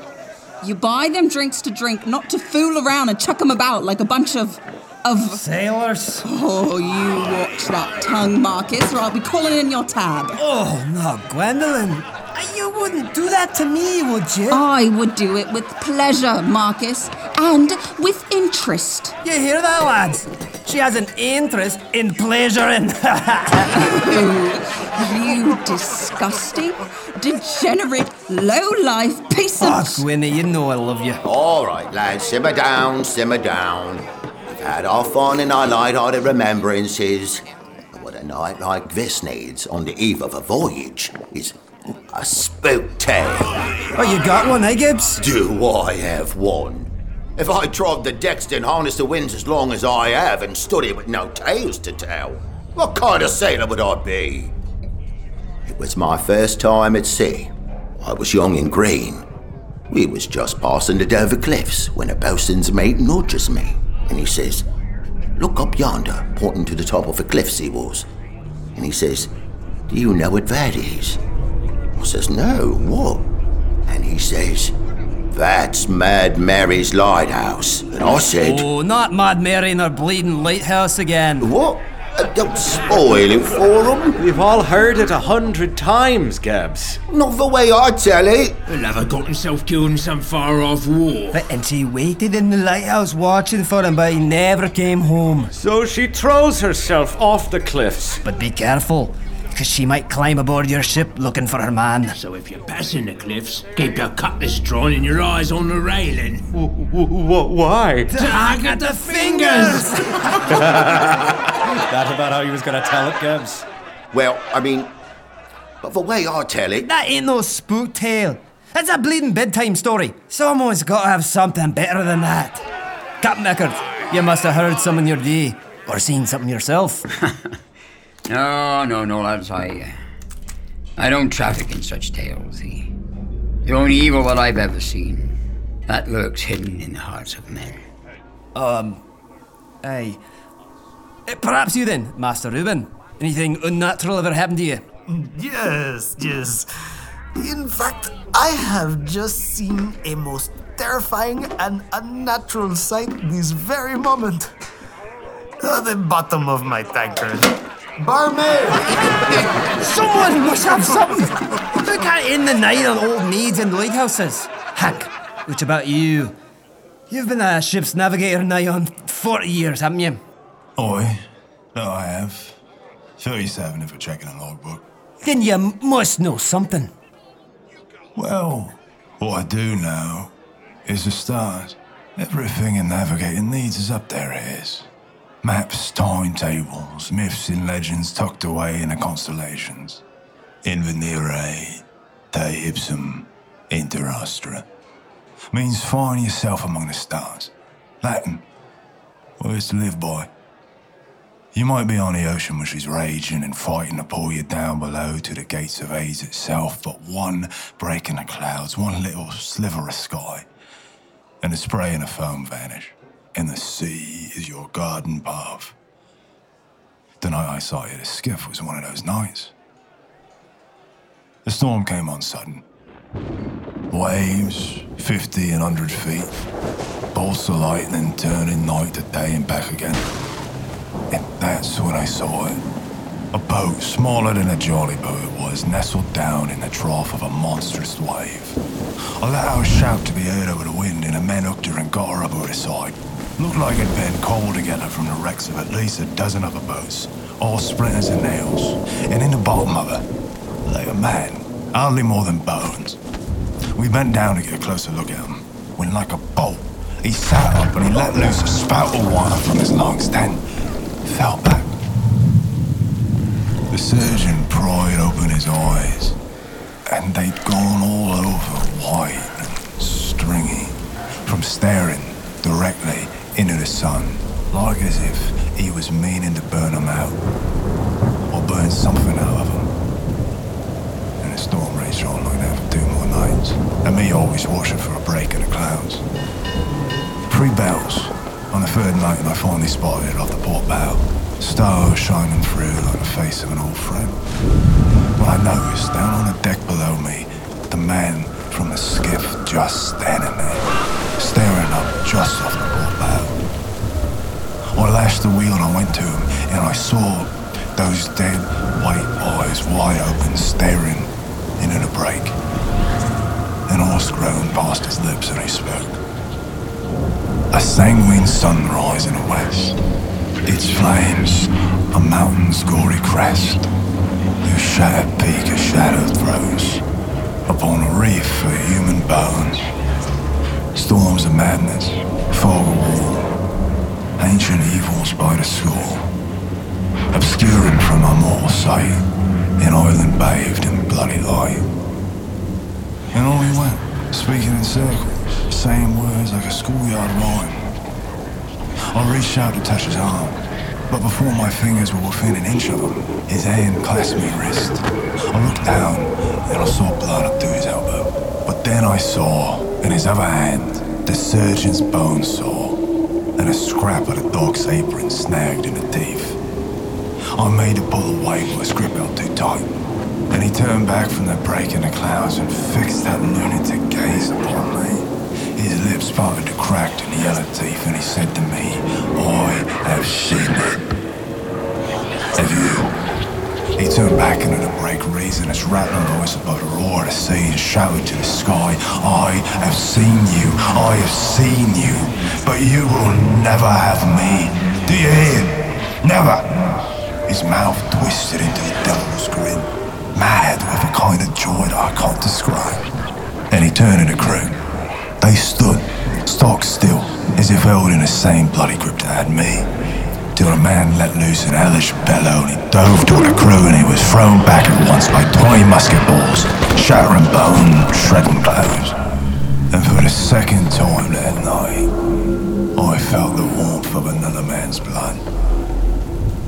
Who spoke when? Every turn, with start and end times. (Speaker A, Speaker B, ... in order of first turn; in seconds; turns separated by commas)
Speaker A: 0.6-5.4, Speaker B: 5.4-6.2, Speaker A: 6.2-10.4, Speaker B: 10.4-14.6, Speaker A: 14.5-19.2, Speaker B: 19.2-23.9, Speaker A: 23.8-30.1, Speaker B: 29.6-31.2, Speaker C: 31.2-41.6, Speaker C: 42.1-43.5, Speaker B: 44.0-45.2, Speaker C: 45.2-54.5, Speaker C: 55.7-59.3, Speaker C: 59.9-64.6, Speaker C: 65.4-68.1, Speaker C: 68.8-69.3, Speaker C: 69.9-71.2, Speaker C: 72.0-73.3, Speaker C: 73.9-74.7, Speaker C: 75.3-78.7, Speaker B: 78.4-81.5, Speaker C: 81.4-84.2, Speaker D: 84.2-87.0, Speaker C: 87.1-88.6, Speaker E: 88.7-91.4, Speaker B: 91.3-95.5, Speaker D: 95.5-98.2, Speaker B: 98.2-102.2, Speaker E: 102.1-106.4, Speaker D: 106.5-108.1, Speaker B: 108.1-110.4, Speaker E: 108.2-109.9, Speaker D: 110.5-111.2, Speaker D: 111.8-113.7, Speaker C: 114.1-114.9, Speaker C: 115.8-116.8, Speaker B: 116.8-122.7, Speaker B: 123.2-127.0, Speaker F: 127.2-127.6, Speaker F: 128.3-130.0, Speaker F: 131.0-132.9, Speaker F: 133.6-137.8, Speaker B: 138.6-139.0, Speaker B: 139.8-140.2, Speaker B: 141.3-144.9, Speaker G: 145.1-146.7, Speaker G: 147.4-154.5, Speaker G: 155.6-159.0, Speaker B: 159.8-166.4, Speaker B: 167.1-170.2, Speaker H: 170.8-172.6, Speaker H: 173.2-174.8, Speaker B: 175.2-176.9, Speaker H: 178.2-180.3, Speaker H: 180.9-184.9, Speaker H: 185.4-190.0, Speaker H: 190.6-194.7, Speaker H: 195.5-198.4, Speaker H: 199.4-200.3, Speaker H: 201.5-210.5, Speaker H: 211.4-215.8, Speaker H: 217.2-219.5, Speaker H: 221.4-222.6, Speaker H: 223.9-226.3, Speaker H: 227.1-230.1, Speaker H: 231.1-232.6, Speaker H: 233.3-238.6, Speaker H: 239.2-250.1, Speaker H: 250.7-253.0, Speaker H: 253.8-260.4, Speaker H: 261.0-261.7, Speaker H: 263.7-266.2, Speaker H: 266.9-277.2, Speaker H: 278.3-279.7, Speaker H: 281.2-286.0, Speaker H: 287.3-294.2, Speaker H: 295.2-303.4, Speaker H: 304.8-312.4, Speaker H: 313.7-316.0, Speaker H: 317.5-319.8, Speaker H: 320.5-323.7, Speaker H: 324.4-326.8, Speaker H: 327.5-329.7, Speaker H: 330.8-333.3, Speaker H: 334.2-336.1, Speaker H: 337.1-339.0, Speaker H: 339.6-341.7, Speaker H: 343.1-347.7, Speaker H: 348.9-362.8, Speaker H: 363.4-366.4, Speaker H: 367.4-369.8, Speaker H: 370.3-375.1, Speaker H: 375.6-380.8, Speaker H: 382.4-382.9, Speaker H: 383.8-396.6, Speaker H: 397.3-402.8, Speaker H: 403.5-404.6, Speaker H: 405.2-409.7, Speaker H: 410.4-419.0, Speaker H: 419.7-421.9, Speaker H: 422.8-425.2